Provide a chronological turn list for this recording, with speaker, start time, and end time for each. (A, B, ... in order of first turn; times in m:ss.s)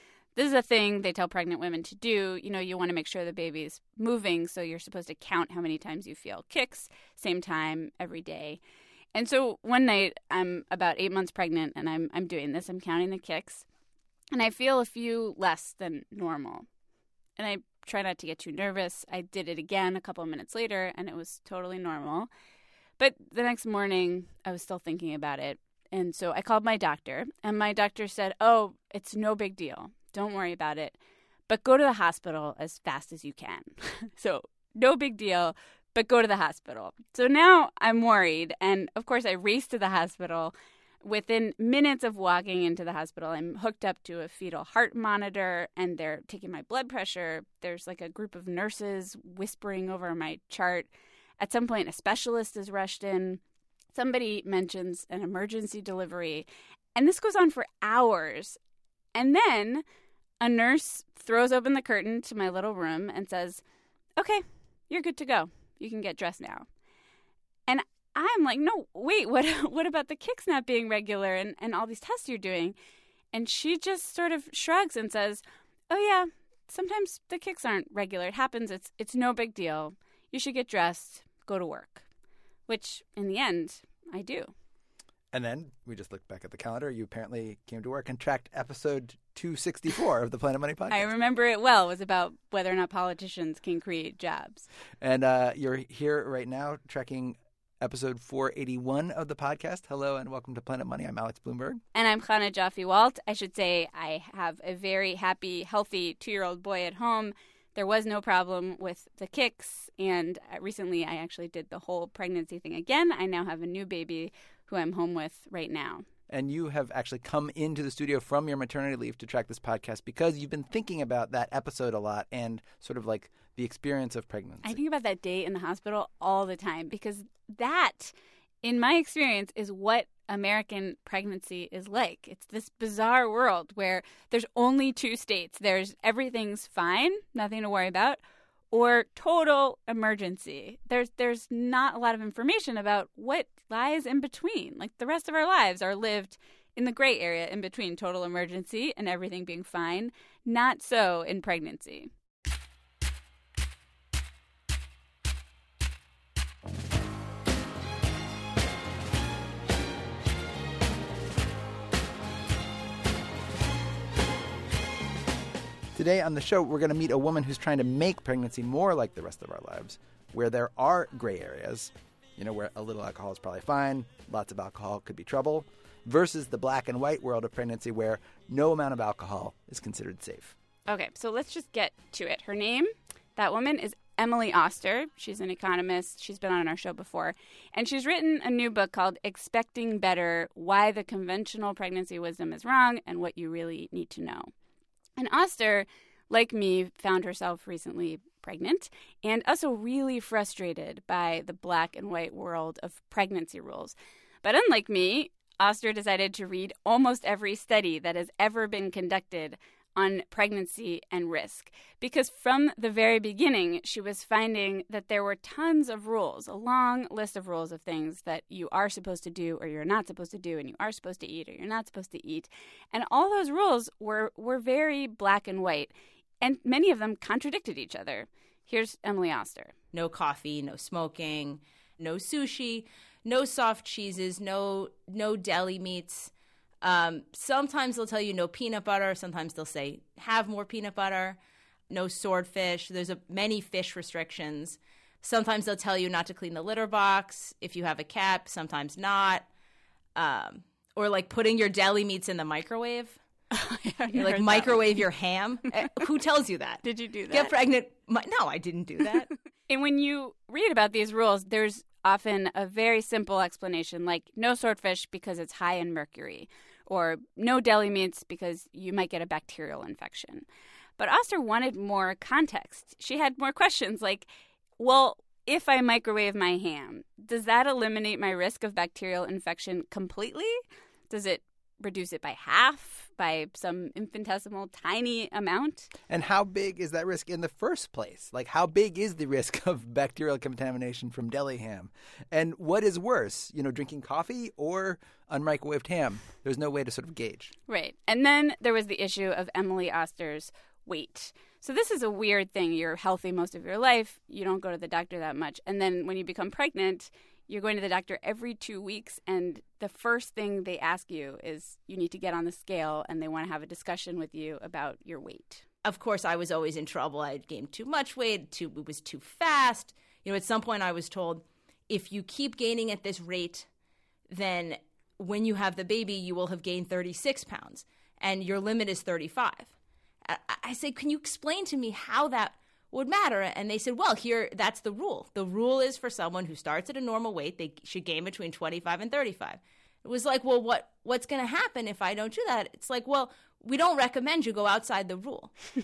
0:00.3-0:08.6 A
0:09.1-0:13.6 A
0:14.3-0:16.6 A
0:17.4-0:22.3 A
0:23.0-0:53.4 A
0:53.9-0:58.6 A
0:59.1-0:59.8 A
1:00.4-1:03.6 A
1:04.2-1:06.6 A
1:07.7-1:12.7 A
1:13.3-1:22.0 A
1:22.7-1:24.5 A
1:25.3-1:31.1 B
1:30.9-1:34.7 A
1:35.0-1:41.8 B
1:41.9-1:56.0 A
1:56.3-2:04.8 B
2:04.6-2:18.2 A
2:18.7-2:32.1 A
2:45.9-3:00.6 B
3:00.9-3:14.5 A
3:15.2-3:49.7 A
3:49.9-3:56.3 C
3:56.8-4:09.5 C
4:10.2-4:13.2 C
4:13.5-4:15.0 A
4:14.1-4:19.3 C
4:16.8-4:17.5 A
4:19.7-4:30.4 A
4:31.0-4:45.9 A
4:46.1-4:57.5 B
4:57.7-5:15.6 A
5:15.8-5:23.7 C
5:24.3-5:29.7 C
5:30.2-5:45.5 C